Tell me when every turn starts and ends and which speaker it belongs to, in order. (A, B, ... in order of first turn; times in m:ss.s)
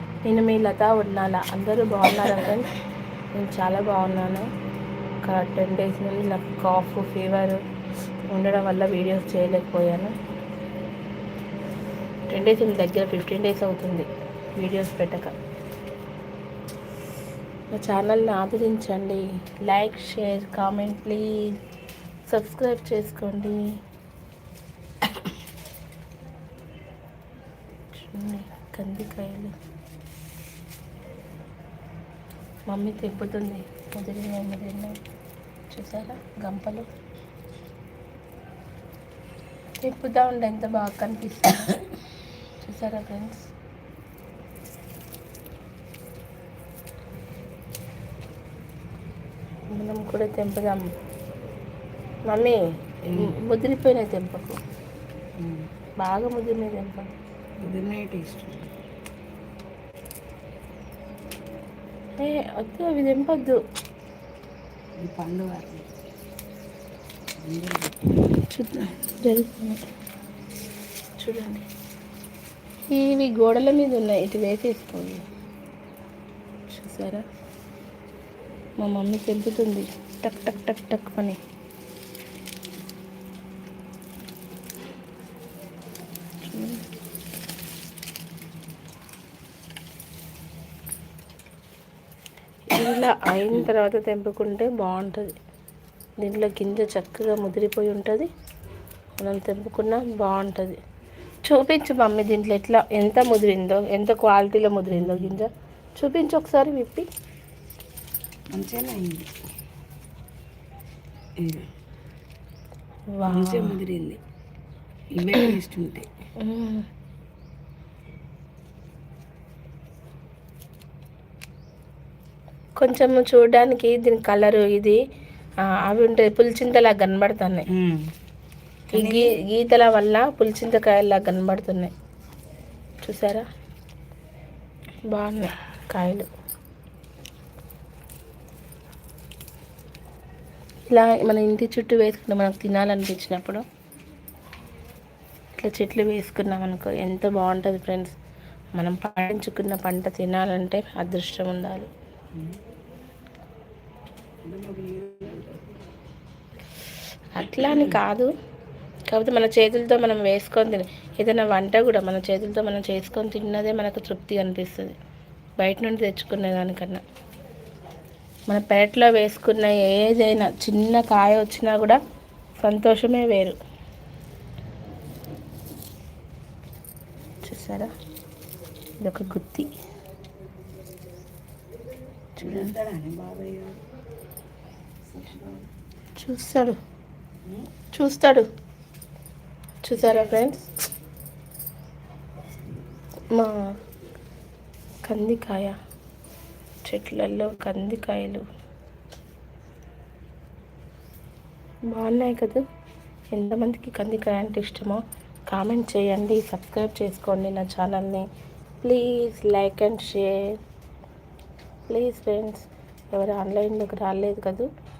0:00.2-0:02.7 A
0:03.3-0:04.5 A
0:05.2-0:07.6 A
0:08.3-0:10.2 A
0:12.3-0:15.4 A
0:17.7-0:21.6 A
0:22.3-0:23.8 A
0:27.9-0:29.6 A
0:32.7-0:35.0 A
0:35.7-0:36.9 A
0:39.8-0:41.8 A
0:42.6-0:43.5 A
0:49.7-0:50.9 A
0:52.3-0:54.6 A
0:53.1-0:53.3 B
0:55.4-0:55.7 B
0:56.0-0:57.1 A
0:57.6-0:58.8 B
1:02.2-1:03.6 A
1:05.0-1:05.9 B
1:07.4-1:08.2 B
1:08.4-1:09.8 A
1:11.2-1:11.6 A
1:12.9-1:15.2 A
1:16.7-1:17.2 A
1:18.8-1:21.4 A
1:26.5-1:26.8 A
1:32.7-1:35.3 A
1:36.2-1:38.3 A
1:39.2-1:40.8 A
1:41.4-1:47.1 A
1:44.9-1:45.4 B
1:48.5-1:49.3 B
1:51.4-1:51.7 B
1:53.1-1:53.8 A
1:53.3-1:54.2 B
1:55.2-1:56.1 B
1:56.4-1:56.9 A
2:02.8-2:05.0 A
2:05.6-2:07.7 A
2:07.7-2:08.1 B
2:08.9-2:09.3 B
2:08.9-2:11.9 A
2:13.0-2:13.4 A
2:15.1-2:16.3 A
2:20.9-2:23.6 A
2:25.6-2:28.1 A
2:28.8-2:31.9 A
2:32.3-2:32.6 B
2:34.4-2:35.7 B
2:37.3-2:38.3 A
2:37.6-2:38.0 B
2:39.1-2:45.0 A
2:45.6-2:47.0 A
2:48.5-2:52.0 A
2:52.6-2:53.6 A
2:57.4-2:57.9 A
2:59.0-2:59.7 A
3:02.4-3:02.8 A
3:02.4-3:03.8 B
3:05.1-3:05.7 B
3:06.2-3:06.8 A
3:07.9-3:08.5 A
3:09.8-3:10.7 A
3:13.3-3:13.7 A
3:15.0-3:15.8 A
3:16.8-3:18.4 A
3:21.9-3:22.6 A
3:23.3-3:28.3 A
3:28.8-3:30.6 A
3:31.9-3:34.7 A